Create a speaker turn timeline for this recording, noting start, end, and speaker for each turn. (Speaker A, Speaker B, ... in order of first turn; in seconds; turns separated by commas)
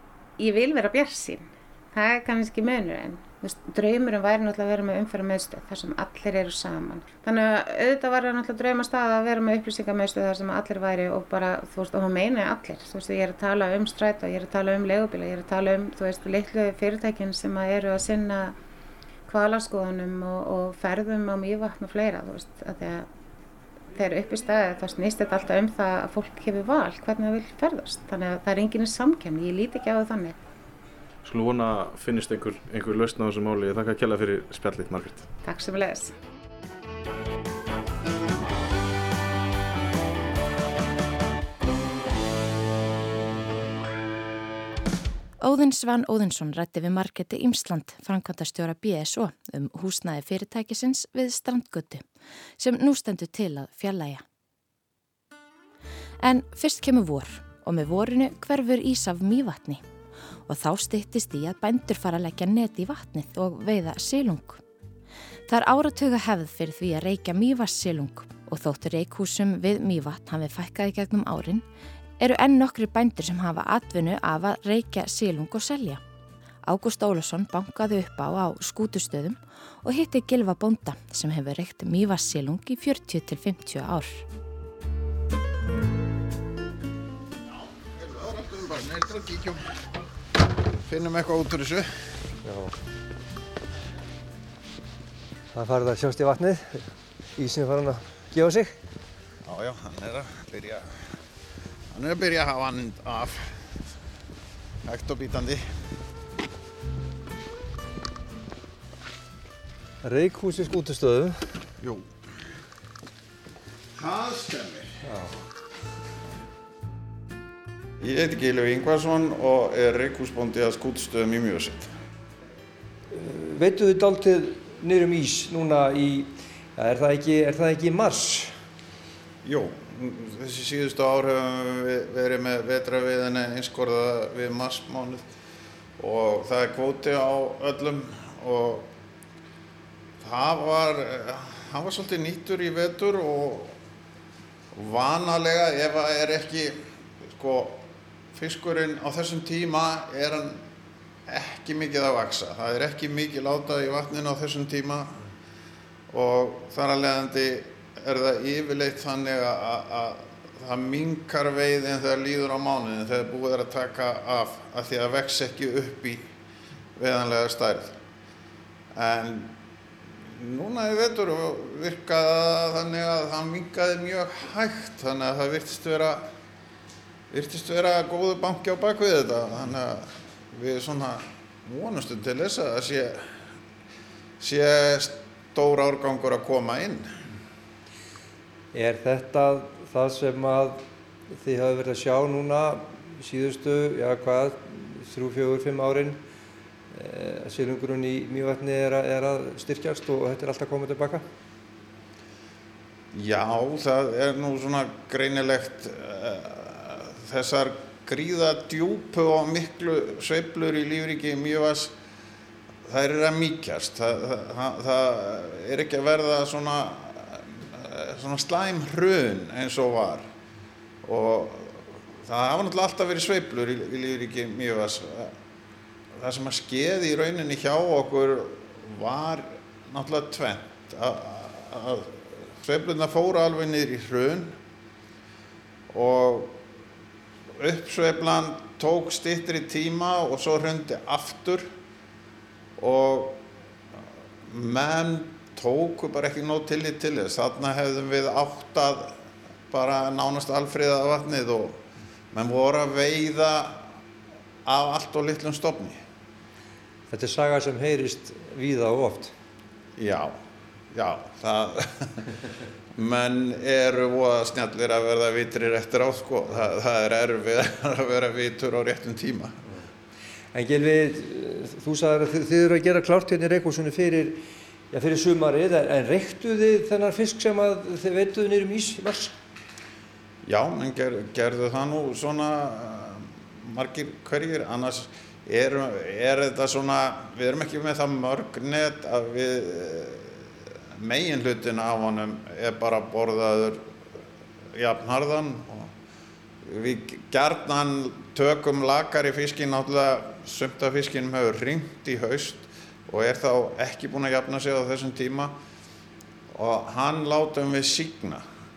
Speaker A: 0.4-18.5, Speaker A: 19.3-23.1, Speaker A: 23.9-30.4, Speaker B: 31.2-35.2, Speaker A: 35.4-36.1, Speaker C: 45.4-52.0, Speaker C: 52.6-54.2, Speaker C: 56.2-59.8, Speaker C: 60.5-64.6, Speaker C: 65.5-71.6, Speaker C: 72.2-76.0, Speaker C: 76.6-84.2, Speaker D: 88.0-89.8, Speaker D: 90.8-92.0, Speaker E: 92.4-92.7, Speaker E: 95.5-98.8, Speaker D: 99.4-100.9, Speaker D: 101.9-103.8, Speaker D: 104.8-105.6, Speaker E: 110.0-111.6, Speaker D: 111.8-112.1, Speaker D: 114.0-115.0, Speaker E: 115.0-115.3, Speaker D: 118.0-121.9, Speaker E: 123.1-128.6, Speaker D: 129.4-135.3, Speaker D: 136.0-138.9, Speaker D: 140.2-143.7, Speaker D: 144.7-146.8, Speaker D: 147.3-150.6, Speaker D: 151.3-155.2, Speaker D: 156.1-166.3, Speaker D: 166.9-168.0, Speaker D: 168.9-169.6, Speaker D: 170.3-176.3, Speaker D: 177.3-183.4, Speaker D: 184.4-187.1, Speaker E: 188.7-196.2, Speaker E: 196.9-201.2, Speaker D: 203.1-211.9, Speaker D: 212.8-220.3, Speaker D: 221.0-225.3, Speaker D: 226.1-234.6, Speaker D: 235.9-236.6, Speaker D: 237.6-241.7, Speaker D: 242.8-243.4, Speaker D: 244.5-249.1, Speaker D: 249.7-251.8, Speaker D: 252.3-253.9, Speaker D: 254.6-256.0, Speaker E: 257.1-259.3, Speaker D: 260.0-260.4, Speaker D: 260.9-262.3, Speaker D: 262.9-269.6, Speaker E: 270.5-279.3, Speaker D: 280.4-290.4, Speaker D: 290.9-293.9, Speaker D: 294.7-295.9, Speaker D: 296.6-305.6, Speaker D: 306.5-308.4